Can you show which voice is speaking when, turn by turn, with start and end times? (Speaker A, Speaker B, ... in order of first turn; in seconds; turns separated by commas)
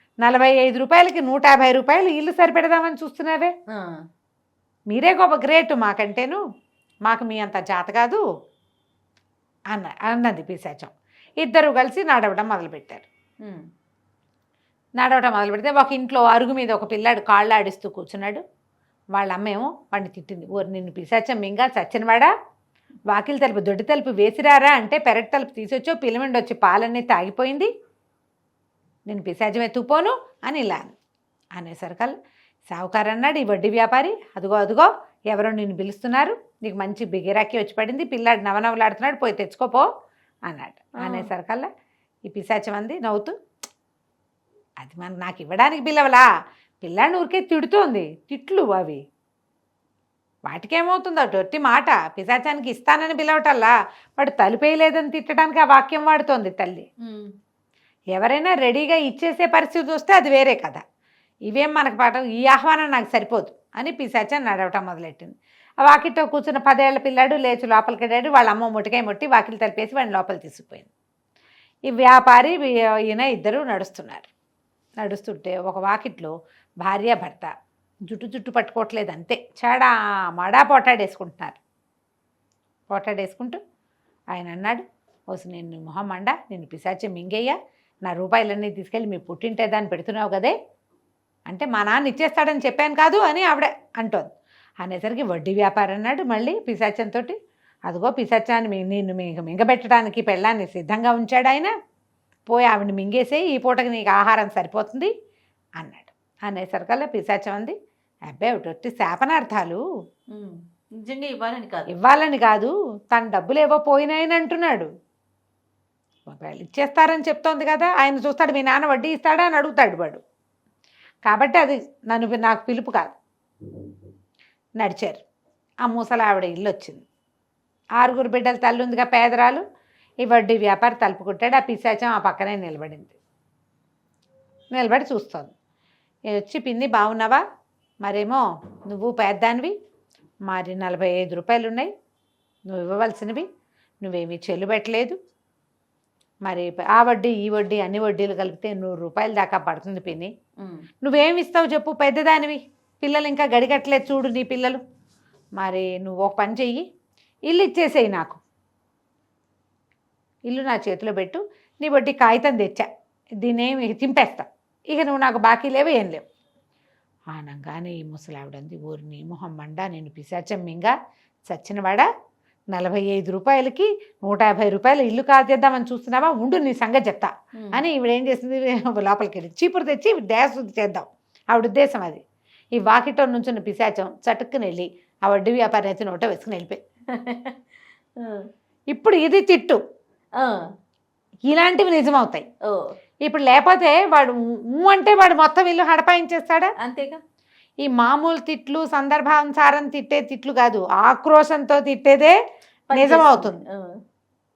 Speaker A: 0.2-3.5, Speaker A: 4.9-6.4, Speaker A: 7.0-8.2, Speaker A: 9.7-13.1, Speaker A: 15.0-18.4, Speaker A: 19.1-22.3, Speaker A: 23.1-27.7, Speaker A: 29.1-30.9, Speaker A: 31.6-32.1, Speaker A: 32.7-39.9, Speaker A: 40.5-41.7, Speaker B: 41.0-41.3, Speaker A: 42.3-43.3, Speaker A: 44.8-46.2, Speaker A: 46.8-49.0, Speaker A: 50.5-56.9, Speaker B: 57.0-57.3, Speaker A: 58.1-60.8, Speaker A: 61.5-70.9, Speaker A: 71.9-74.3, Speaker A: 75.0-77.5, Speaker A: 78.1-81.6, Speaker A: 82.9-83.6, Speaker A: 84.3-90.5, Speaker A: 91.5-94.3, Speaker A: 94.8-97.3, Speaker A: 97.9-101.7, Speaker A: 102.5-105.1, Speaker A: 105.8-107.7, Speaker A: 108.3-109.8, Speaker B: 110.3-111.9, Speaker A: 111.9-114.9, Speaker A: 116.3-120.2, Speaker A: 121.3-123.1, Speaker A: 124.8-125.2, Speaker A: 125.8-127.0, Speaker A: 128.0-129.6, Speaker A: 130.2-133.1, Speaker A: 134.7-135.5, Speaker A: 136.3-137.4, Speaker A: 138.0-139.7, Speaker A: 140.5-141.9, Speaker A: 142.7-143.4, Speaker A: 144.0-145.2, Speaker A: 146.4-150.3, Speaker B: 150.6-150.9, Speaker A: 151.0-154.8, Speaker A: 155.6-156.8, Speaker A: 157.5-158.4, Speaker A: 160.5-162.9, Speaker A: 163.4-166.2, Speaker A: 167.3-170.9, Speaker A: 171.5-172.1, Speaker A: 172.7-182.2, Speaker B: 177.6-177.9, Speaker A: 182.7-186.8, Speaker B: 187.1-187.6, Speaker B: 188.2-188.4, Speaker A: 188.9-189.8, Speaker A: 191.5-192.4, Speaker A: 193.2-196.7, Speaker B: 196.8-197.2, Speaker A: 197.8-202.4, Speaker B: 202.9-203.9, Speaker A: 202.9-203.6